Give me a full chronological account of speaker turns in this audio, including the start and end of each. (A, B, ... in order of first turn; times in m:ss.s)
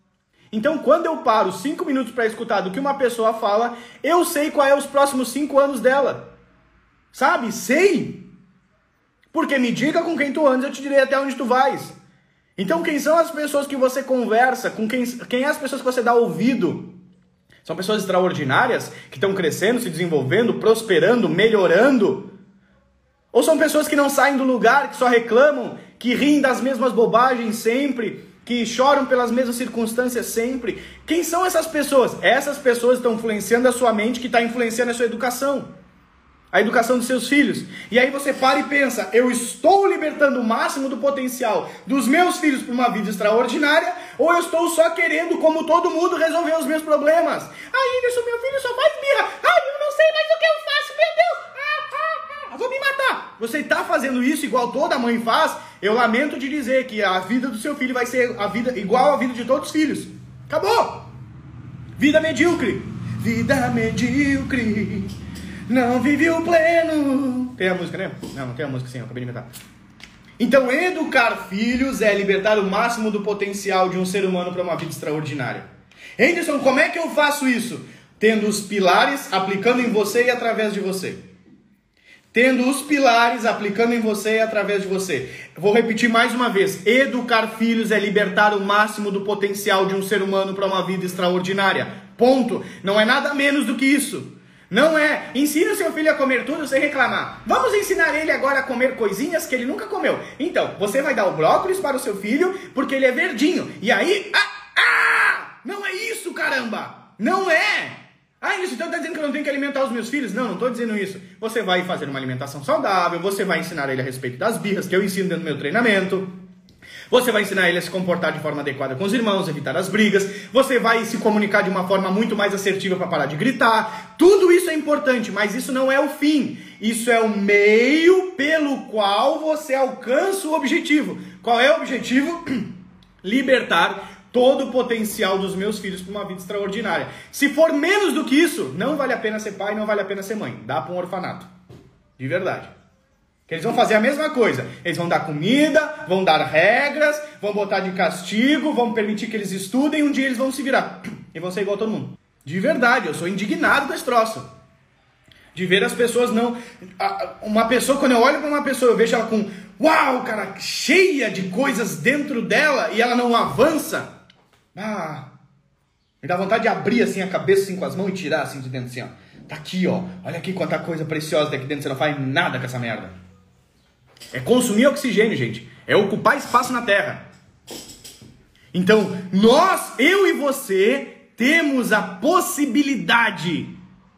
0:00.5-0:06.3 A
0:07.1-0:08.3 A
0:09.3-0:12.0 A
0:12.6-0:16.9 A
0:17.6-0:22.3 A
0:23.3-0:35.7 A
0:36.5-1:01.1 A
1:02.0-1:05.1 A
1:05.7-1:09.5 A
1:10.4-1:15.7 A
1:16.2-1:21.2 A
1:22.3-1:56.3 A
1:57.1-2:21.5 A
2:22.2-2:22.7 A
2:23.5-2:34.5 A
2:35.5-2:44.1 A
2:44.7-2:45.3 A
2:46.2-2:53.1 A
2:54.3-2:57.2 A
2:58.7-3:03.8 A